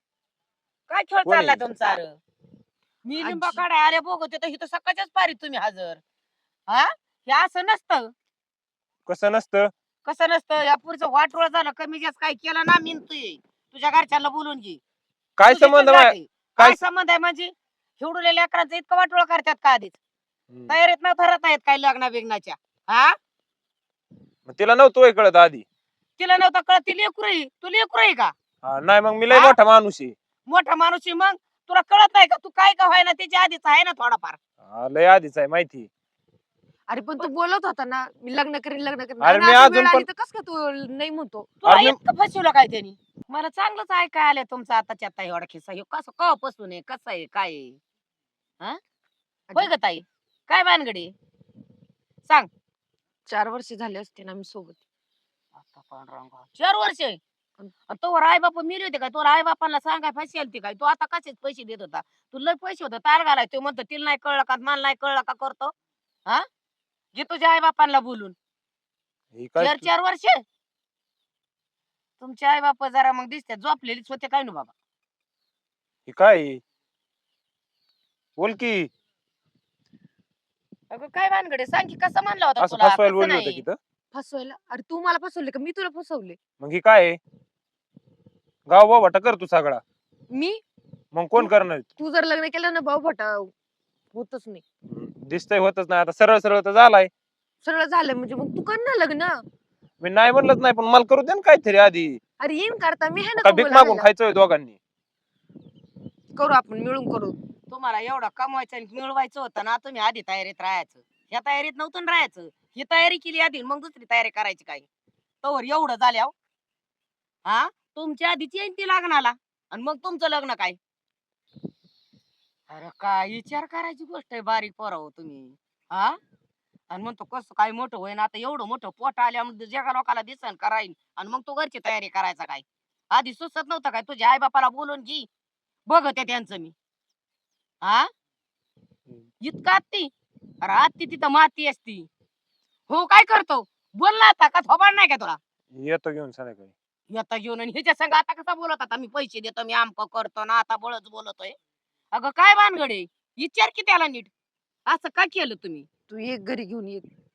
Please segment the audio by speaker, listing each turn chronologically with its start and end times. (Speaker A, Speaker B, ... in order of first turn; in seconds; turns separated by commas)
Speaker A: 0.9-2.2, Speaker B: 1.2-1.6, Speaker A: 3.0-6.0, Speaker C: 3.2-3.6, Speaker A: 6.7-8.1, Speaker B: 9.1-9.7, Speaker A: 10.1-14.8, Speaker B: 15.4-16.8, Speaker A: 15.5-20.0, Speaker A: 20.7-23.1, Speaker B: 24.5-25.6, Speaker A: 26.2-28.3, Speaker B: 28.6-30.1, Speaker A: 29.3-29.6, Speaker A: 30.5-34.4, Speaker B: 34.6-35.9, Speaker C: 36.9-41.5, Speaker B: 39.2-40.1, Speaker A: 41.6-47.8, Speaker B: 41.7-42.0, Speaker A: 49.5-51.1, Speaker C: 53.3-54.8, Speaker A: 55.6-57.2, Speaker A: 57.9-65.7, Speaker A: 67.2-68.3, Speaker B: 69.3-69.9, Speaker A: 69.6-70.4, Speaker A: 72.2-74.7, Speaker B: 76.1-76.6, Speaker B: 78.4-78.9, Speaker A: 80.9-83.6, Speaker B: 82.6-83.8, Speaker C: 84.1-86.4, Speaker B: 86.6-87.2, Speaker B: 88.7-89.8, Speaker C: 90.3-90.6, Speaker B: 91.1-91.9, Speaker C: 91.4-93.5, Speaker C: 94.1-94.6, Speaker B: 94.9-97.1, Speaker C: 97.6-99.4, Speaker B: 100.0-102.2, Speaker C: 102.4-104.1, Speaker B: 103.4-104.8, Speaker C: 106.4-107.4, Speaker A: 107.7-114.9, Speaker A: 115.4-116.3, Speaker A: 117.5-120.8, Speaker A: 122.7-126.2, Speaker A: 126.9-135.3, Speaker A: 135.9-136.7, Speaker A: 137.8-138.1, Speaker A: 139.4-140.1, Speaker A: 140.6-142.1, Speaker A: 142.9-145.4, Speaker B: 145.7-146.7, Speaker A: 147.1-151.6, Speaker A: 152.1-154.3, Speaker A: 154.9-155.9, Speaker C: 156.1-157.1